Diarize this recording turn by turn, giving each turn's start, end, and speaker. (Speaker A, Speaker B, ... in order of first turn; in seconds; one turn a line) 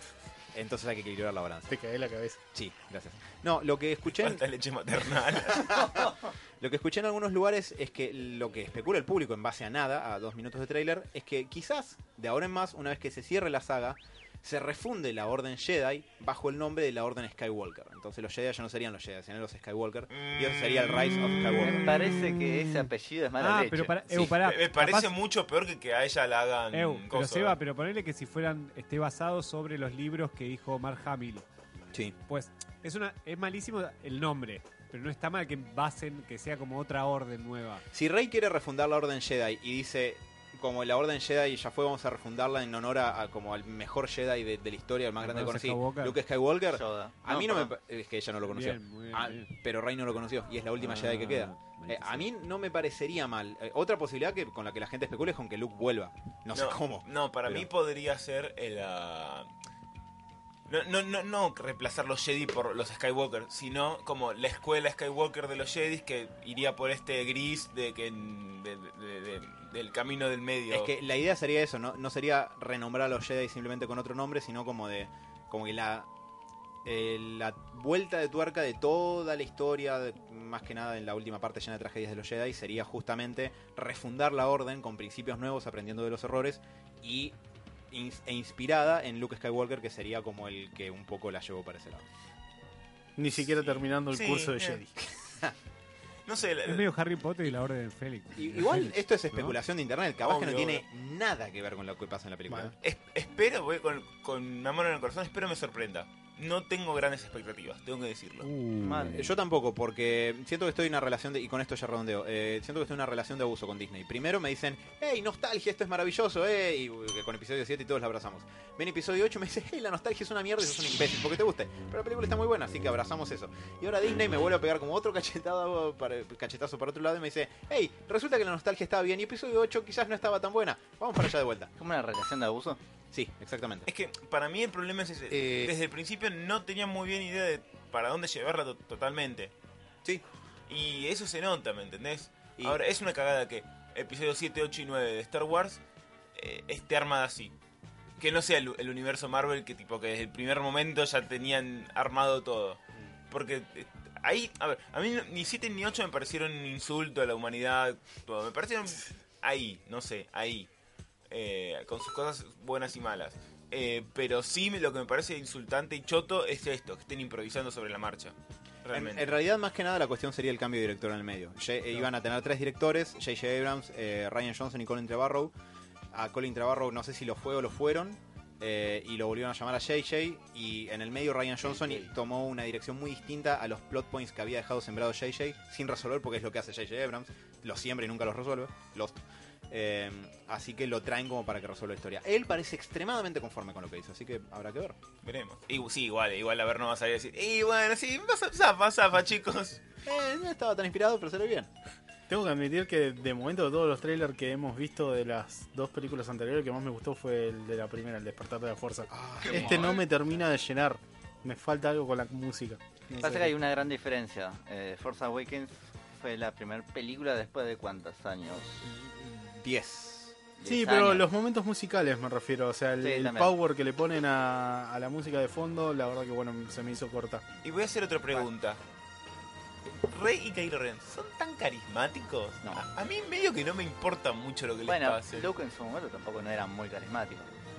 Speaker A: 0.5-1.7
Speaker B: 1.7-2.4
Speaker A: 2.5-4.4
Speaker C: 4.2-5.9
Speaker A: 5.0-6.0
Speaker A: 6.6-22.0
Speaker C: 20.1-22.1
Speaker D: 21.6-24.4
Speaker E: 22.0-22.8
Speaker E: 23.4-25.1
Speaker C: 24.3-27.6
Speaker E: 26.7-31.4
Speaker E: 32.3-37.8
Speaker A: 37.9-57.7
Speaker E: 45.2-46.2
Speaker D: 46.7-47.7
Speaker E: 48.5-49.5
Speaker E: 50.8-52.3
Speaker C: 56.5-59.5
Speaker C: 60.7-70.9
Speaker A: 70.7-76.1
Speaker A: 76.8-87.3
Speaker A: 87.9-92.1
Speaker B: 93.2-95.0
Speaker C: 94.1-94.8
Speaker A: 95.3-95.5
Speaker C: 96.3-96.9
Speaker E: 96.7-98.9
Speaker A: 98.3-102.7
Speaker C: 100.2-100.8
Speaker C: 102.8-108.5
Speaker E: 108.4-109.3
Speaker D: 108.8-109.3
Speaker A: 109.1-131.7
Speaker D: 131.8-132.8
Speaker A: 133.1-133.9
Speaker C: 133.9-139.5
Speaker A: 135.3-135.8
Speaker C: 140.7-145.8
Speaker C: 146.4-147.5
Speaker C: 148.2-160.7
Speaker C: 161.3-168.3
Speaker C: 168.8-169.3
Speaker A: 168.9-175.5
Speaker A: 176.1-189.2
Speaker D: 181.7-182.1
Speaker A: 189.7-195.0
Speaker C: 195.2-199.8
Speaker A: 200.0-201.7
Speaker B: 202.3-213.5
Speaker A: 209.1-210.0
Speaker D: 213.2-218.9
Speaker A: 218.9-220.4
Speaker D: 220.6-221.3
Speaker B: 220.7-227.4
Speaker D: 223.0-223.5
Speaker C: 227.6-228.8
Speaker C: 230.1-235.5
Speaker D: 234.9-237.5